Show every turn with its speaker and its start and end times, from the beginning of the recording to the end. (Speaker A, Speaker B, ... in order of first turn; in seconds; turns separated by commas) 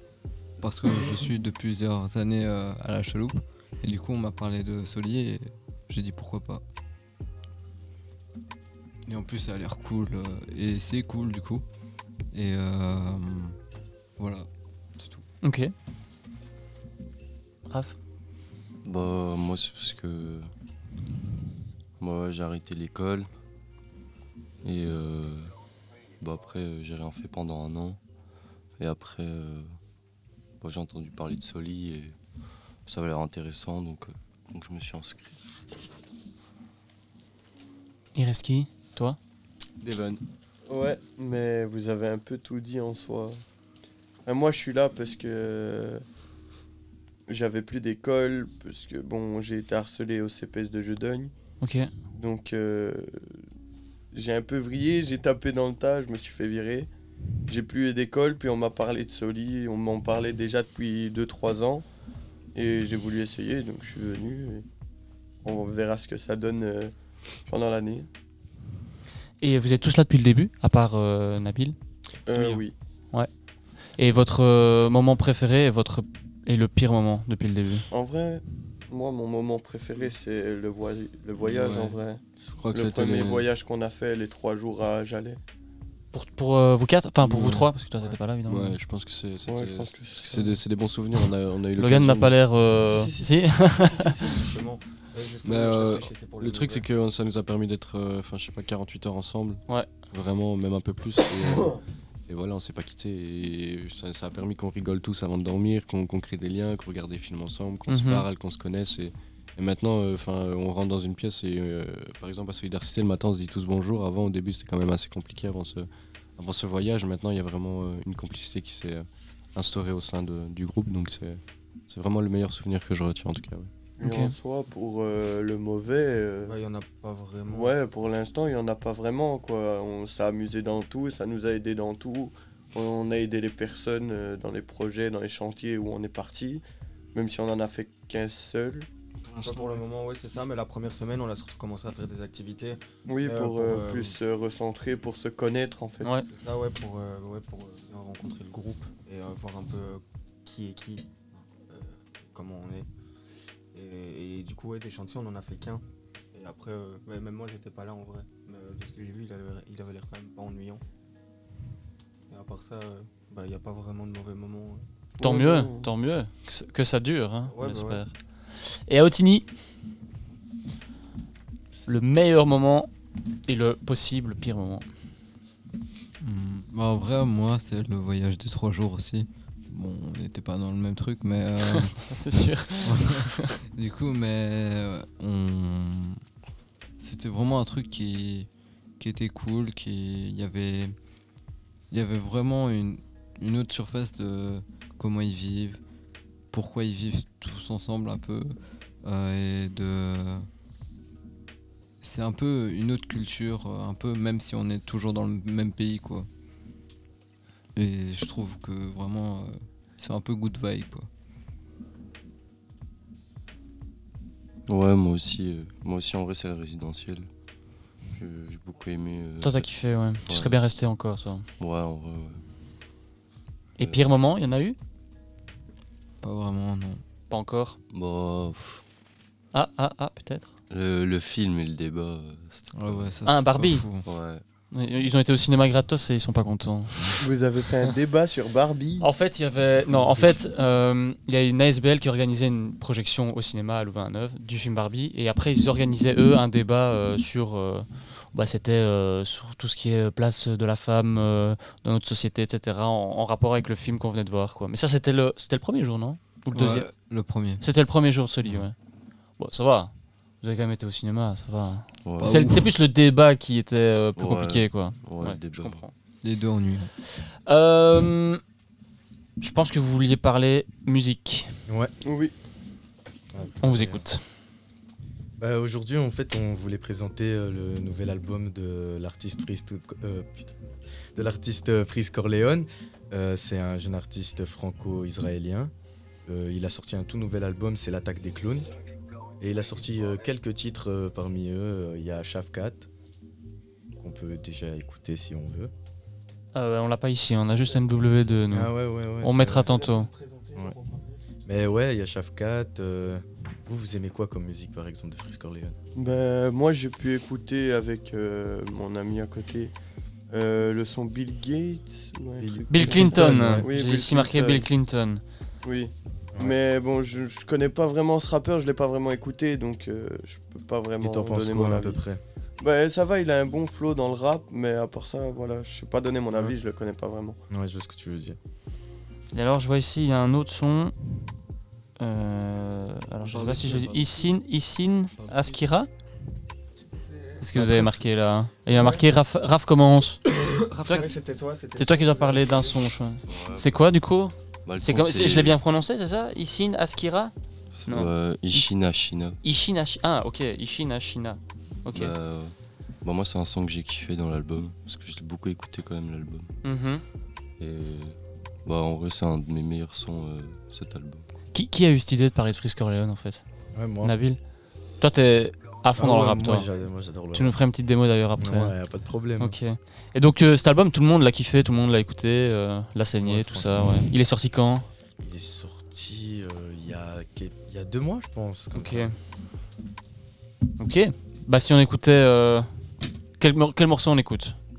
Speaker A: 0.6-6.6, Speaker A: 9.1-11.6, Speaker A: 12.3-13.6, Speaker A: 14.2-14.5, Speaker A: 15.0-15.2, Speaker B: 15.4-15.7, Speaker B: 17.7-18.0, Speaker C: 18.9-20.5, Speaker C: 22.0-23.3, Speaker C: 24.6-25.5, Speaker C: 26.2-28.0, Speaker C: 28.8-29.7, Speaker C: 30.6-32.1, Speaker C: 32.9-35.3, Speaker B: 38.1-39.2, Speaker D: 39.8-40.2, Speaker E: 40.7-43.4, Speaker E: 44.2-46.0, Speaker E: 47.3-51.3, Speaker B: 51.6-51.9, Speaker E: 52.1-53.4, Speaker E: 54.1-56.9, Speaker E: 57.5-61.9, Speaker E: 62.5-64.7, Speaker E: 65.4-66.9, Speaker E: 67.5-68.1, Speaker B: 69.4-71.8, Speaker E: 72.3-72.7, Speaker B: 74.0-77.9, Speaker E: 77.9-85.4, Speaker D: 81.4-82.0, Speaker D: 82.5-83.5, Speaker B: 86.1-88.8, Speaker D: 87.2-87.7, Speaker D: 88.5-92.4, Speaker E: 89.5-90.6, Speaker B: 91.8-94.1, Speaker F: 92.8-96.8, Speaker D: 95.4-101.8, Speaker D: 102.3-123.7, Speaker B: 107.9-108.2, Speaker E: 124.0-126.6, Speaker B: 124.0-124.3, Speaker F: 126.5-127.8, Speaker E: 127.5-138.9, Speaker D: 139.3-139.8, Speaker F: 139.4-144.2, Speaker E: 143.1-146.1, Speaker F: 146.2-152.9, Speaker F: 153.7-160.8, Speaker F: 162.3-164.8, Speaker E: 165.2-165.9, Speaker B: 165.2-168.1, Speaker F: 167.5-168.0, Speaker B: 168.7-169.5, Speaker B: 171.9-172.9, Speaker B: 173.5-174.8, Speaker A: 176.2-182.0, Speaker B: 181.7-183.5, Speaker A: 182.8-186.2, Speaker A: 187.0-190.9, Speaker A: 191.9-195.8, Speaker A: 196.5-200.5, Speaker A: 202.0-206.3, Speaker A: 207.8-211.1, Speaker C: 214.7-217.3, Speaker C: 218.2-219.7, Speaker B: 219.4-221.5, Speaker C: 220.3-220.5, Speaker C: 221.6-222.4, Speaker B: 223.8-224.8, Speaker A: 226.2-227.0, Speaker B: 227.3-227.8, Speaker C: 227.9-228.8, Speaker B: 229.5-230.5, Speaker C: 230.7-232.7, Speaker A: 232.7-234.1, Speaker B: 233.2-233.8, Speaker C: 234.1-234.4, Speaker B: 234.7-237.2, Speaker E: 237.2-239.1, Speaker B: 239.0-256.9, Speaker A: 256.5-257.6, Speaker B: 257.6-258.8, Speaker B: 259.4-259.9, Speaker B: 260.4-265.9, Speaker A: 262.2-262.7, Speaker C: 264.2-265.8, Speaker A: 266.2-266.9, Speaker B: 267.4-268.4, Speaker B: 269.4-271.5, Speaker G: 271.7-271.9, Speaker E: 272.0-272.3, Speaker G: 273.3-274.1, Speaker B: 273.6-274.2, Speaker G: 275.4-280.5, Speaker G: 281.1-285.7, Speaker G: 286.3-288.7, Speaker G: 289.4-292.9, Speaker G: 294.0-295.7, Speaker B: 296.5-300.1, Speaker G: 298.5-299.8, Speaker F: 299.5-301.3, Speaker G: 301.5-305.8, Speaker E: 305.9-309.7, Speaker E: 310.3-314.7, Speaker G: 312.4-313.7, Speaker B: 312.7-315.2, Speaker E: 315.6-322.0, Speaker G: 321.0-322.2, Speaker E: 322.6-327.4, Speaker G: 327.5-328.4, Speaker B: 329.3-330.9, Speaker B: 332.0-335.9, Speaker D: 333.2-334.3, Speaker D: 335.2-335.6, Speaker F: 336.9-337.5, Speaker B: 337.4-340.2, Speaker G: 337.6-337.9, Speaker F: 338.7-339.0, Speaker F: 340.7-342.8, Speaker B: 340.8-341.1, Speaker B: 341.8-347.3, Speaker D: 343.3-343.8, Speaker C: 344.7-345.5, Speaker D: 344.7-345.5, Speaker D: 347.7-348.9, Speaker C: 347.8-349.4, Speaker B: 347.9-348.7, Speaker B: 349.4-352.1, Speaker D: 352.0-352.2, Speaker C: 352.0-352.5, Speaker C: 353.0-356.5, Speaker B: 356.6-357.0, Speaker C: 357.6-358.1, Speaker D: 357.6-358.1, Speaker C: 358.7-361.2, Speaker D: 360.5-361.2, Speaker B: 361.5-363.4, Speaker G: 363.7-364.1, Speaker B: 364.0-364.4, Speaker B: 365.0-366.7, Speaker G: 366.0-367.6, Speaker B: 367.3-368.8, Speaker G: 368.4-369.6, Speaker B: 369.4-374.9, Speaker G: 373.2-374.1, Speaker G: 375.2-379.1, Speaker B: 378.7-379.1, Speaker B: 380.8-382.7, Speaker B: 383.4-384.6